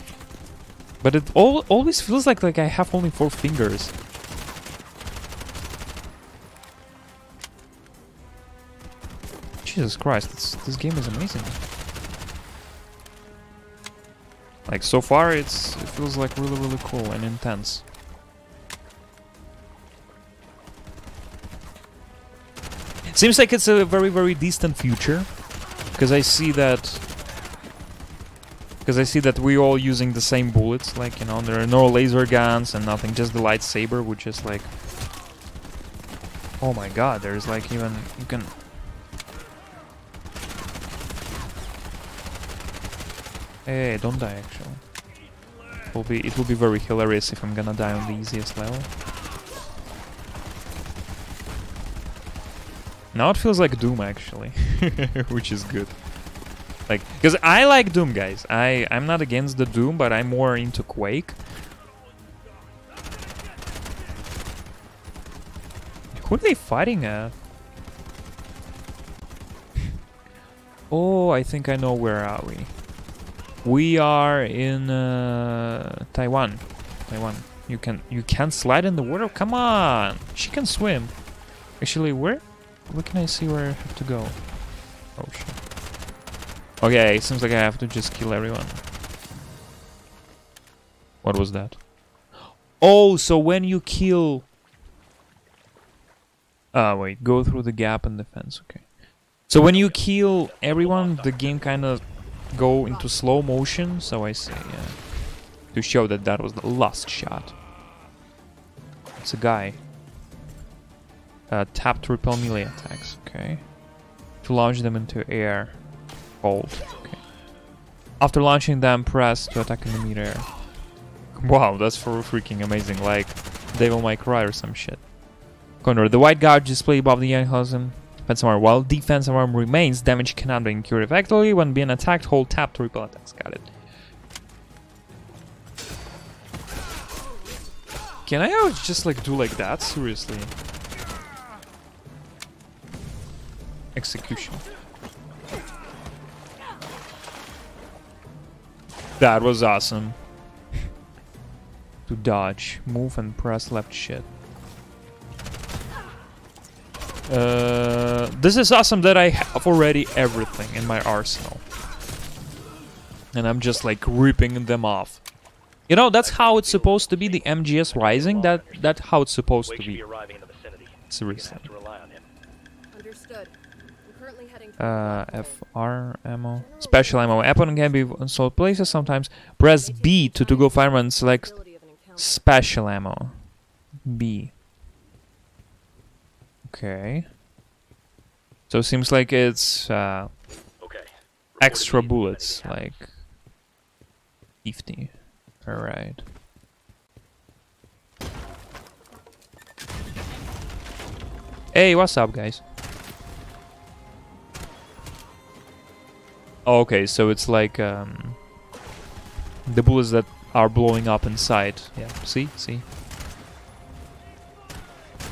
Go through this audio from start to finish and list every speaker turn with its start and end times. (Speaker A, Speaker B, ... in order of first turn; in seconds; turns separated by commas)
Speaker A: 1.0-3.9, Speaker A: 9.6-11.6, Speaker A: 14.7-17.8, Speaker A: 23.1-25.3, Speaker A: 25.9-27.0, Speaker A: 28.8-34.7, Speaker A: 36.6-38.5, Speaker A: 43.6-44.8, Speaker A: 45.9-48.9, Speaker A: 53.1-55.9, Speaker A: 56.9-61.4, Speaker A: 66.1-67.3, Speaker A: 70.9-72.7, Speaker A: 73.6-81.1, Speaker A: 81.8-84.4, Speaker A: 85.2-85.6, Speaker A: 86.8-88.8, Speaker A: 91.2-91.8, Speaker A: 92.8-94.5, Speaker A: 96.7-98.8, Speaker A: 99.5-105.0, Speaker B: 99.5-102.0, Speaker C: 102.9-103.2, Speaker A: 105.7-107.5, Speaker A: 109.2-109.8, Speaker A: 111.5-113.6, Speaker A: 114.4-115.8, Speaker A: 116.4-117.2, Speaker A: 118.2-120.5, Speaker A: 121.3-125.0, Speaker A: 125.8-133.7, Speaker A: 138.2-140.5, Speaker A: 143.9-144.6, Speaker A: 149.2-150.2, Speaker A: 152.1-154.3, Speaker A: 157.3-161.6, Speaker A: 163.3-165.2, Speaker A: 165.9-170.0, Speaker B: 166.2-169.0, Speaker B: 169.7-172.3, Speaker A: 171.1-171.7, Speaker C: 172.9-175.6, Speaker A: 174.8-181.5, Speaker C: 176.6-182.6, Speaker A: 182.2-183.4, Speaker A: 184.1-184.5, Speaker A: 186.7-187.3, Speaker A: 188.7-190.3, Speaker B: 190.8-193.0, Speaker A: 191.6-193.1, Speaker A: 194.6-195.1, Speaker A: 195.6-196.2, Speaker A: 201.7-202.6, Speaker A: 206.7-208.4, Speaker A: 209.7-212.8